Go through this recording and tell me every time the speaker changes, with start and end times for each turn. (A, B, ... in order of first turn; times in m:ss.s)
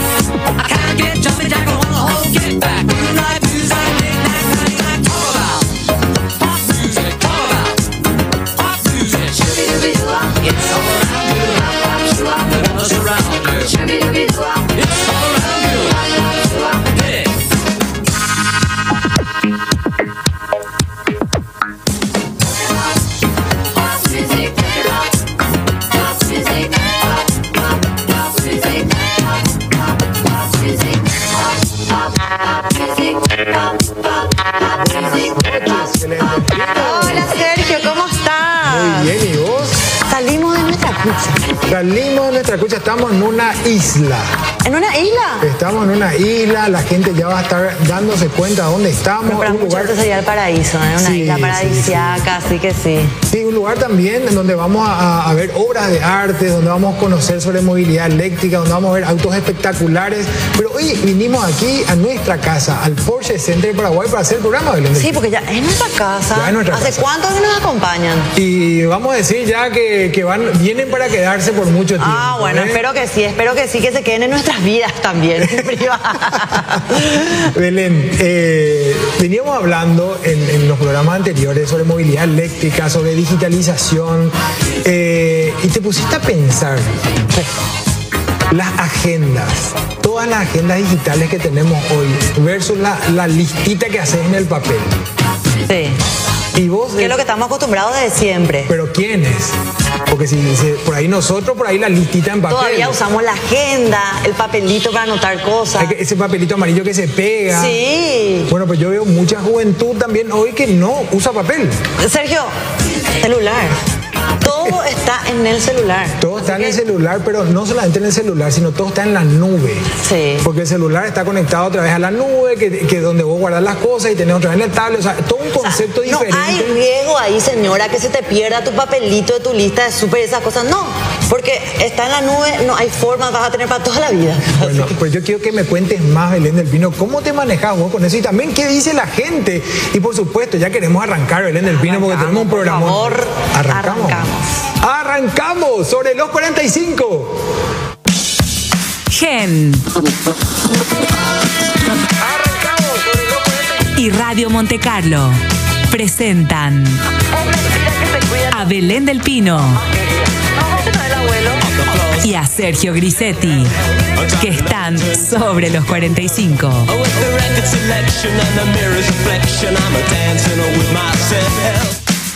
0:00.6-0:05.8 A
0:06.4-0:07.9 A
0:08.6-0:17.4 A
0:34.8-0:37.3 B
0:36.7-0:39.1 C
0:38.6-0:39.9 B
0:40.1-0:41.6 C
0:41.7-0:44.3 B
0:44.6-0:45.5 C
0:45.4-0:50.0 B
0:49.2-0:53.2 C
0:51.0-0:52.3 B
0:53.3-1:05.2 B
1:04.9-1:08.3 C
1:06.3-1:07.1 B
1:08.3-1:12.8 B
1:12.0-1:17.2 C
1:15.4-1:15.7 B
1:16.3-1:26.9 B
1:28.5-1:35.0 B
1:35.7-1:36.0 C
1:36.5-1:37.2 B
1:37.0-1:38.7 C
1:38.7-1:39.5 B
1:40.1-1:43.0 B
1:42.5-1:45.9 C
1:45.8-1:47.8 B
1:47.5-1:48.5 C
1:48.5-1:51.8 B
1:52.0-1:52.5 C
1:53.2-1:53.8 C
1:54.4-1:56.8 C
1:56.2-1:59.9 B
2:00.0-2:00.4 C
2:00.4-2:06.8 B
2:05.6-2:14.9 C
2:14.5-2:27.5 B
2:21.7-2:24.5 C
2:29.1-2:29.9 D
2:32.2-2:33.6 B
2:33.9-2:37.0 D
2:37.3-2:38.8 C
2:38.5-2:39.8 D
2:39.7-2:41.6 C
2:41.7-2:42.2 E
2:42.2-2:43.7 D
2:44.4-2:46.9 D
2:46.9-2:52.0 E